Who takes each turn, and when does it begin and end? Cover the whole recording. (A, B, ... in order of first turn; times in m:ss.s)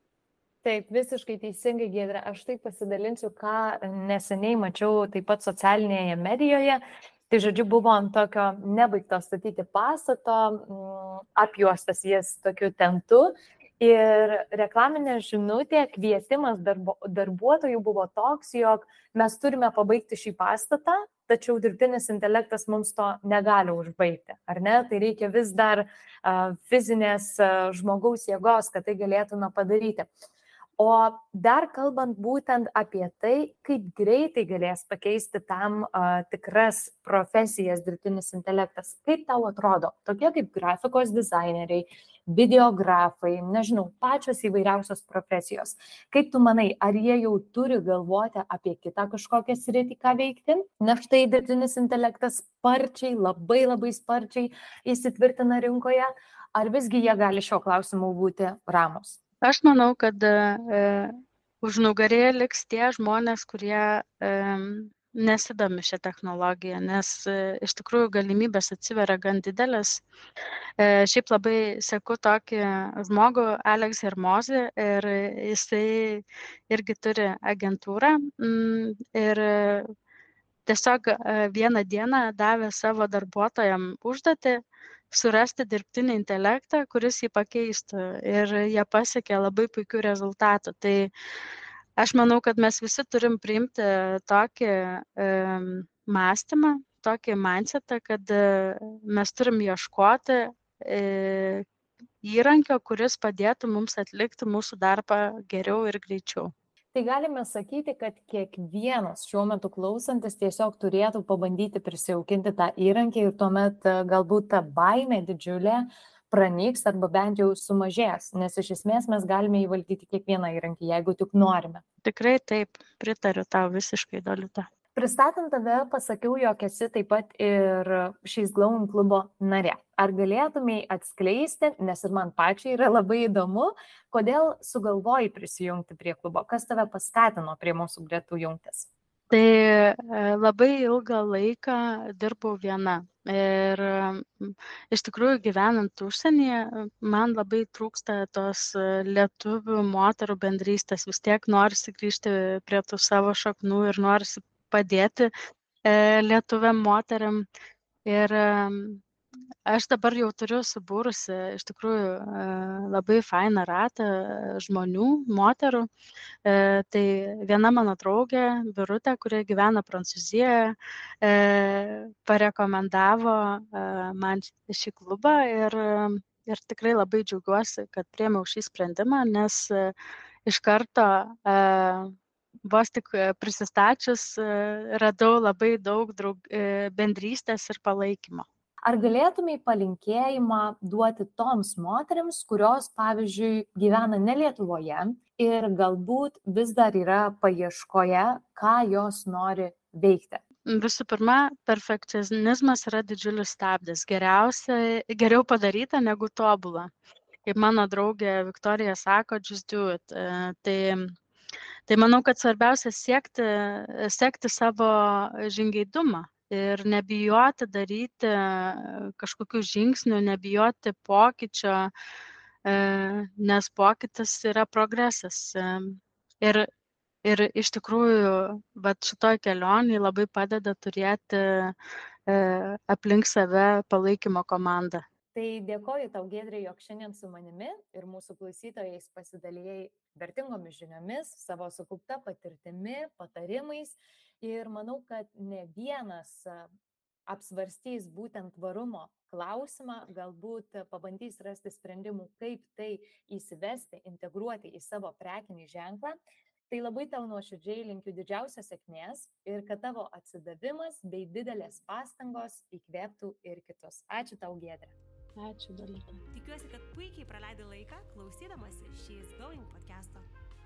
0:00.6-0:30.1 A
0:30.8-0:59.2 A
0:59.4-1:10.0 B
1:10.8-1:19.8 B
1:20.6-1:31.1 B
1:32.0-1:41.6 B
1:42.2-1:46.5 B
1:46.9-2:01.8 A
2:02.0-2:04.7 B
2:04.9-2:18.9 A
2:19.3-2:35.3 B
2:35.8-2:37.4 B
2:38.0-2:39.0 B
2:39.7-2:45.9 B
2:46.4-2:59.9 B
3:00.4-3:02.1 B
3:02.6-3:08.4 B
3:08.8-3:20.4 A
3:20.7-3:26.9 B
3:27.4-3:31.1 B
3:31.9-3:41.9 B
3:42.6-3:46.6 B
3:47.2-3:51.7 B
3:52.3-3:55.0 B
3:55.3-4:06.7 A
4:07.3-4:16.2 A
4:16.7-4:24.9 A
4:25.4-4:26.2 B
4:26.3-4:30.2 C